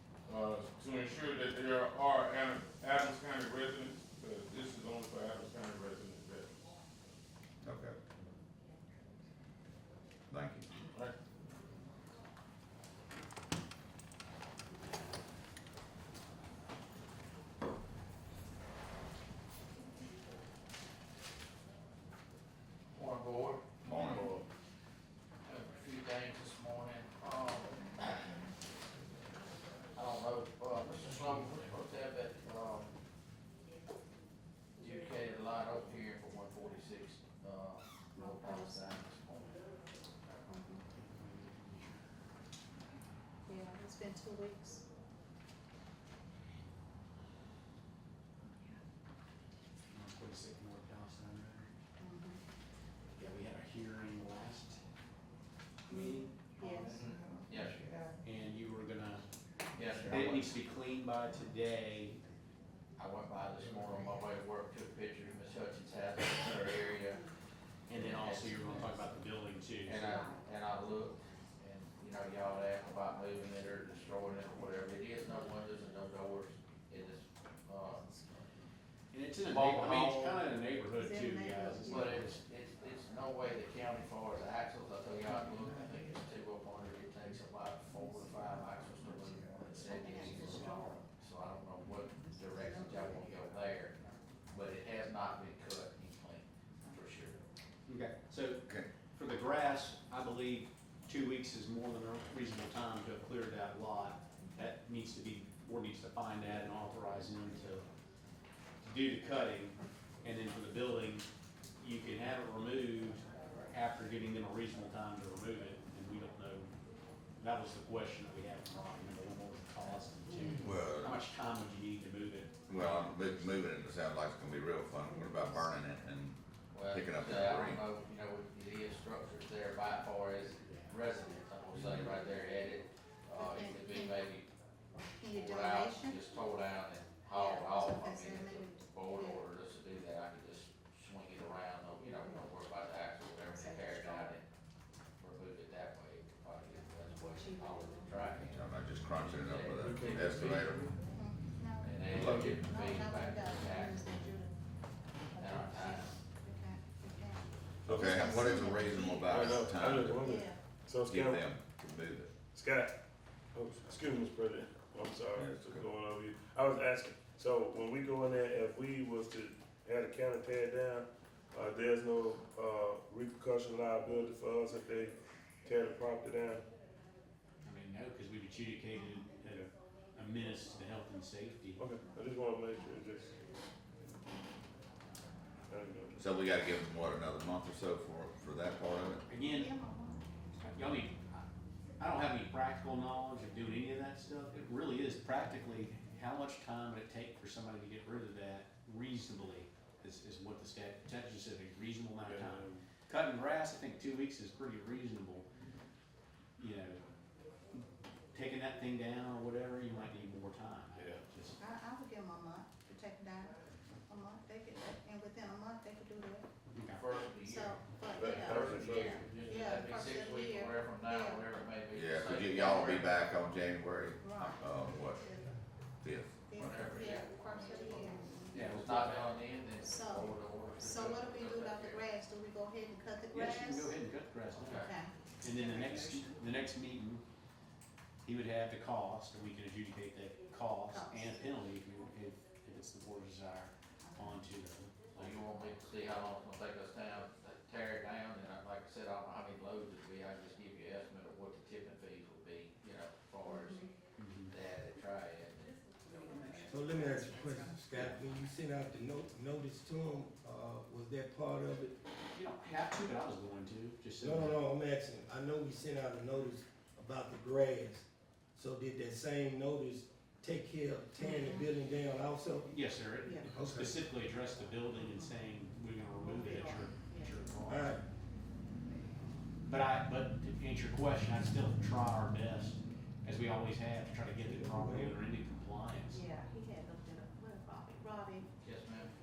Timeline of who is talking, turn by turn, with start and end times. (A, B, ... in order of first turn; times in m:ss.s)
0:00.3-0:06.5 A
0:07.6-0:08.0 B
0:10.3-0:10.7 B
0:22.9-0:23.8 C
0:23.8-0:24.3 B
0:24.2-0:24.4 D
0:25.4-0:28.3 C
0:30.0-0:32.9 C
0:34.8-0:39.6 C
0:38.2-0:39.0 E
0:40.5-0:40.9 E
0:40.9-0:42.0 F
0:43.5-0:44.8 E
0:49.9-0:51.7 F
0:52.0-0:52.4 E
0:53.2-0:54.8 F
0:55.9-0:56.3 F
0:56.6-0:57.0 E
0:56.9-0:57.8 C
0:58.2-0:59.2 F
0:59.8-1:00.5 C
1:00.0-1:02.2 F
1:03.0-1:07.3 C
1:07.9-1:10.2 F
1:07.9-1:09.2 C
1:09.8-1:18.1 C
1:19.1-1:22.4 F
1:19.4-1:20.5 C
1:21.0-1:22.2 E
1:21.8-1:34.0 C
1:29.9-1:30.5 E
1:34.5-1:37.4 C
1:37.9-1:47.9 F
1:48.8-1:51.3 F
1:51.8-1:56.7 F
1:57.4-2:03.6 F
2:00.6-2:01.2 B
2:02.7-2:07.8 B
2:06.7-2:14.5 C
2:10.6-2:10.9 F
2:13.4-2:14.3 E
2:15.2-2:16.2 E
2:15.3-2:24.4 C
2:17.3-2:19.4 E
2:25.2-2:30.6 C
2:27.3-2:28.4 E
2:28.5-2:30.9 B
2:29.8-2:30.9 D
2:31.1-2:34.6 E
2:31.8-2:34.0 C
2:32.1-2:32.4 B
2:32.1-2:32.5 D
2:35.3-2:40.6 E
2:35.4-2:36.2 C
2:37.8-2:41.5 D
2:37.9-2:40.3 B
2:41.0-2:42.3 B
2:42.5-2:42.9 D
2:43.6-2:56.6 D
2:45.3-2:45.9 B
2:57.6-3:01.8 F
2:58.9-2:59.3 E
3:01.8-3:03.3 D
3:05.7-3:06.2 D
3:06.2-3:09.2 B
3:09.3-3:09.7 F
3:09.4-3:10.7 E
3:10.7-3:11.2 F
3:12.0-3:25.5 F
3:22.3-3:22.8 D
3:26.6-3:27.0 F
3:28.3-3:31.6 F
3:31.6-3:33.6 E
3:34.1-3:36.5 E
3:36.7-3:37.0 F
3:36.9-3:43.3 C
3:37.3-3:41.5 E
3:38.2-3:39.4 D
3:41.9-3:45.2 B
3:44.2-3:45.5 E
3:46.0-3:46.8 B
3:46.5-3:48.5 E
3:46.6-3:52.0 C
3:48.5-3:49.4 F
3:49.8-3:53.9 E
3:53.3-3:54.9 F
3:54.5-3:54.9 C
3:54.8-3:55.1 E
3:55.4-3:57.2 F
3:58.2-4:05.7 F
4:00.9-4:01.5 E
4:04.0-4:04.4 E
4:05.1-4:13.9 C
4:13.4-4:13.8 E
4:14.2-4:14.5 F
4:14.5-4:17.2 C
4:16.7-4:21.9 G
4:22.3-4:24.6 F
4:24.2-4:32.7 G
4:31.2-4:31.7 E
4:32.7-4:38.0 F
4:33.2-4:33.6 E
4:33.4-4:34.0 G
4:36.3-4:37.4 E
4:37.7-4:38.0 G
4:39.7-4:46.2 F
4:44.4-4:45.2 G
4:46.1-4:48.5 E
4:48.6-4:49.1 C